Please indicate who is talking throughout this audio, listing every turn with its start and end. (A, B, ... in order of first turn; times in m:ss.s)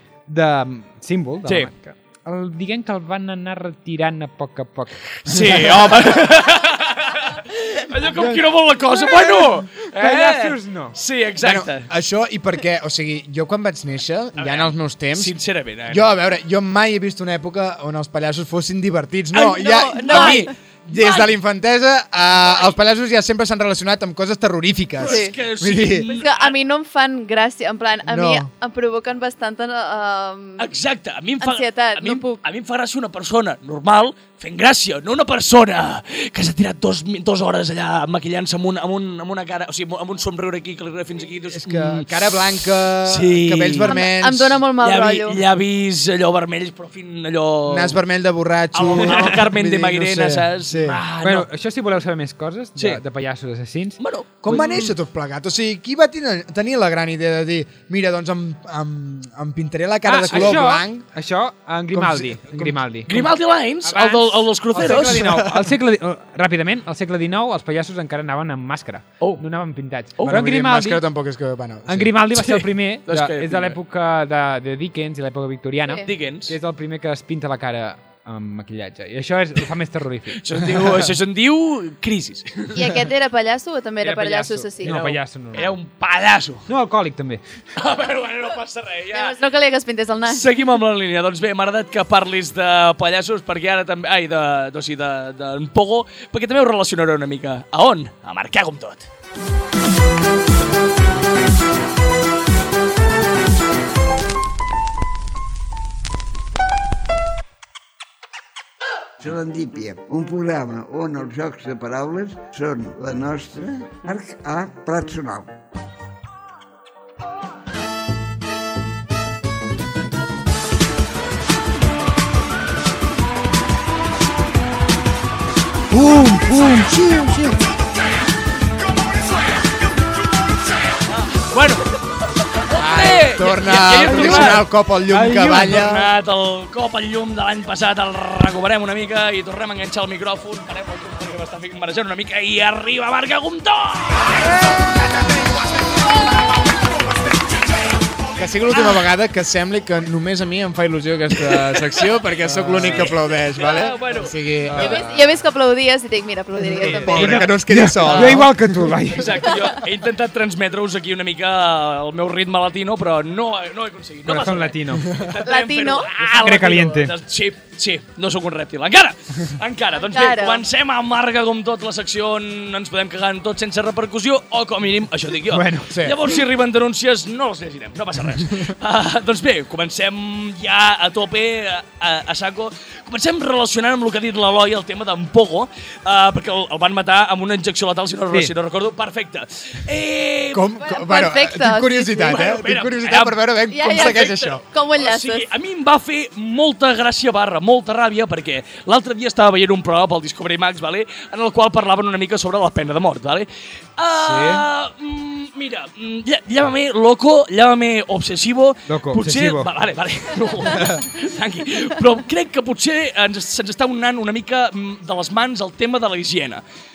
0:00.3-0:05.1 A
0:05.2-0:11.9 B
0:08.1-0:08.4 A
0:09.8-0:11.0 A
0:11.4-0:15.3 C
0:14.4-0:16.1 B
0:15.9-0:26.1 C
0:19.4-0:20.5 D
0:20.0-0:21.3 B
0:25.0-0:26.6 B
0:25.1-0:25.3 D
0:26.1-0:30.7 D
0:28.0-0:28.5 C
0:30.6-0:42.1 B
0:31.4-0:32.4 D
0:41.5-0:44.6 C
0:43.0-0:44.0 B
0:43.9-0:45.4 D
0:44.8-0:48.0 B
0:47.7-0:51.0 C
0:48.7-0:51.5 B
0:51.2-0:54.0 A
0:52.8-0:53.0 B
0:54.0-0:54.9 B
0:54.4-1:01.1 C
1:00.0-1:03.3 A
1:01.9-1:02.8 C
1:03.1-1:05.4 B
1:03.8-1:11.0 A
1:04.8-1:05.7 C
1:10.2-1:10.4 B
1:10.2-1:12.1 C
1:11.9-1:20.4 A
1:12.4-1:13.8 B
1:16.0-1:16.6 B
1:20.3-1:22.8 B
1:22.7-1:25.0 D
1:24.0-1:25.7 A
1:24.8-1:26.7 B
1:26.7-1:27.4 A
1:27.8-1:29.4 B
1:29.1-1:30.5 D
1:30.3-1:39.1 B
1:49.2-1:55.6 E
2:05.9-2:07.4 C
2:06.0-2:07.5 A
2:11.3-2:11.8 B
2:12.7-2:24.4 B
2:12.8-2:16.1 C
2:14.0-2:14.6 A
2:15.2-2:15.5 A
2:24.4-2:25.7 C
2:28.4-2:35.0 C
2:31.4-2:34.9 B
2:34.7-2:35.1 A
2:34.8-2:37.5 D
2:36.8-2:39.0 C
2:36.8-2:39.4 A
2:38.0-2:38.5 B
2:39.1-3:10.7 B
2:44.3-2:45.1 A
2:45.4-2:46.1 D
2:46.3-2:47.1 A
2:50.0-2:50.6 D
2:55.5-2:55.9 A
2:55.9-2:56.2 C
3:10.5-3:14.6 C
3:10.8-3:12.4 D
3:12.2-3:36.6 B
3:13.7-3:15.5 D
3:24.1-3:24.6 C
3:28.9-3:29.7 A